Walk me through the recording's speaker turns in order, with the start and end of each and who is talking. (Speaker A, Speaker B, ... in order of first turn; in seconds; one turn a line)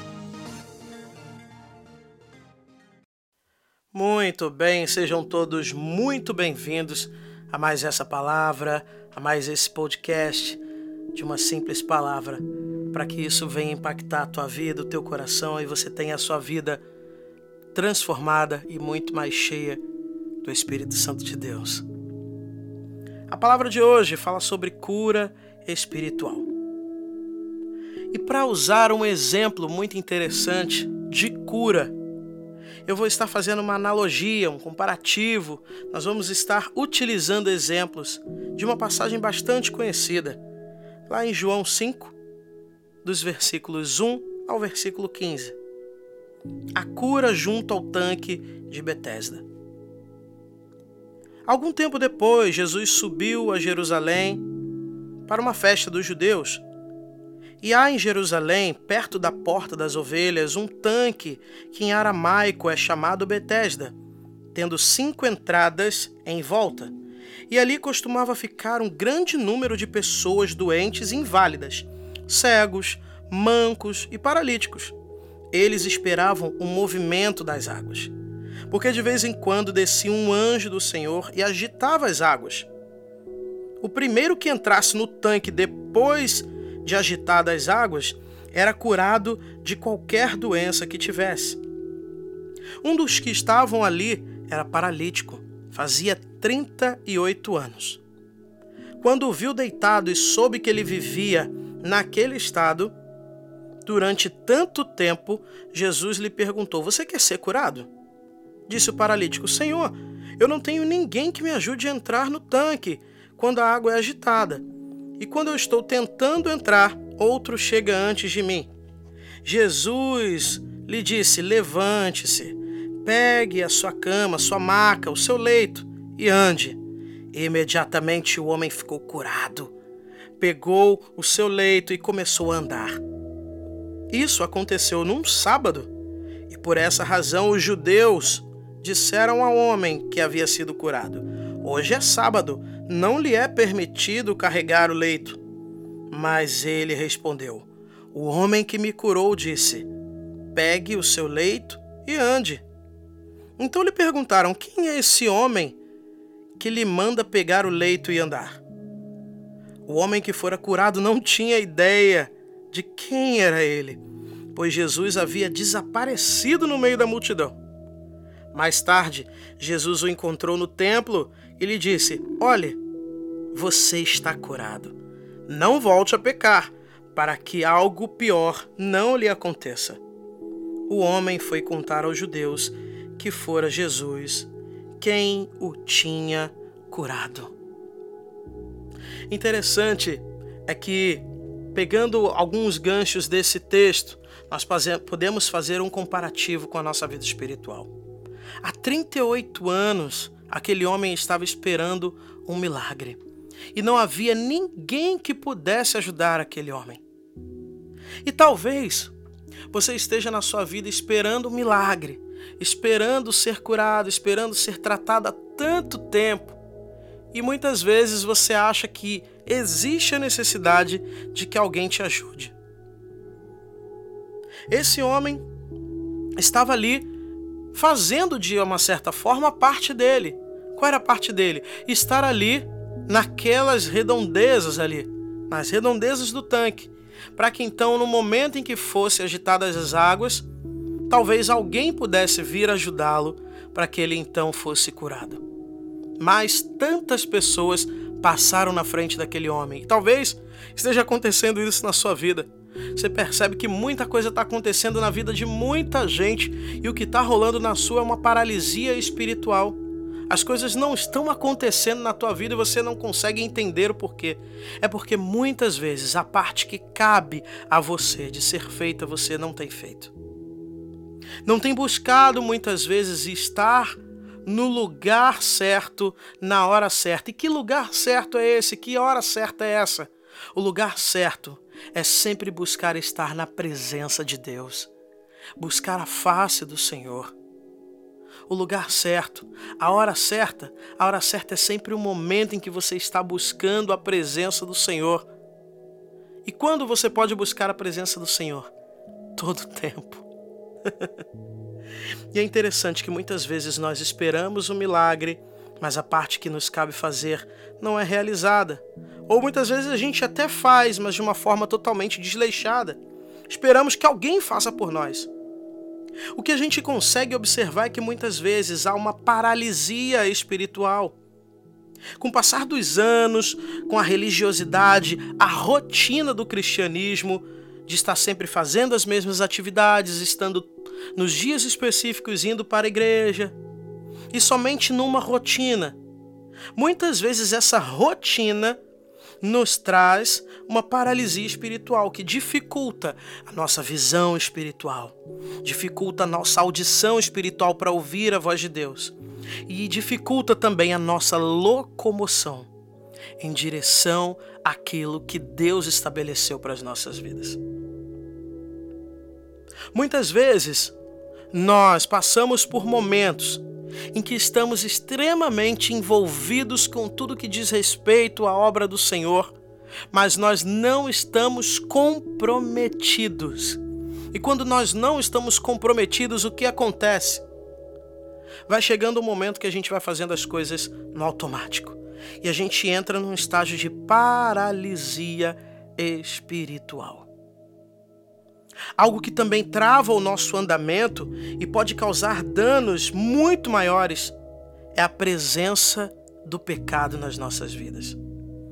Speaker A: 3.9-10.6
Speaker A: 11.1-16.8
Speaker A: 17.7-19.8
Speaker A: 20.4-21.8
Speaker A: 23.3-26.5
Speaker A: 28.1-31.9
Speaker A: 32.9-40.4
Speaker A: 41.1-42.1
Speaker A: 43.0-45.5
Speaker A: 46.7-49.4
Speaker A: 51.5-54.4
Speaker A: 55.2-56.6
Speaker A: 57.6-63.9
Speaker A: 64.5-66.9
Speaker A: 67.5-74.9
Speaker A: 75.5-78.1
Speaker A: 78.7-82.7
Speaker A: 83.8-91.6
Speaker A: 92.8-98.0
Speaker A: 99.0-102.9
Speaker A: 103.8-107.9
Speaker A: 108.7-114.6
Speaker A: 115.2-118.7
Speaker A: 119.4-126.8
Speaker A: 127.3-129.7
Speaker A: 130.4-133.0
Speaker A: 134.1-135.9
Speaker A: 136.5-145.4
Speaker A: 146.1-149.9
Speaker A: 150.5-152.6
Speaker A: 153.6-155.8
Speaker A: 156.6-158.6
Speaker A: 159.9-164.0
Speaker A: 164.5-167.6
Speaker A: 168.5-172.8
Speaker A: 173.5-174.9
Speaker A: 175.5-180.0
Speaker A: 180.9-187.5
Speaker A: 189.3-197.9
Speaker A: 198.6-203.2
Speaker A: 203.7-207.0
Speaker A: 208.2-209.1
Speaker A: 209.7-216.6
Speaker A: 217.3-222.5
Speaker A: 224.7-225.4
Speaker A: 226.4-227.1
Speaker A: 227.7-240.4
Speaker A: 241.1-245.4
Speaker A: 246.2-259.8
Speaker A: 260.3-270.1
Speaker A: 271.4-284.9
Speaker A: 285.6-287.3
Speaker A: 288.5-295.3
Speaker A: 296.4-298.7
Speaker A: 299.4-300.2
Speaker A: 302.3-315.3
Speaker A: 316.3-321.1
Speaker A: 322.2-333.5
Speaker A: 334.3-336.0
Speaker A: 336.7-338.8
Speaker A: 339.4-349.1
Speaker A: 349.7-352.7
Speaker A: 353.4-357.6
Speaker A: 359.9-360.9
Speaker A: 361.5-363.6
Speaker A: 364.1-369.5
Speaker A: 370.1-373.8
Speaker A: 374.3-377.4
Speaker A: 378.7-387.3
Speaker A: 389.0-394.3
Speaker A: 394.9-398.2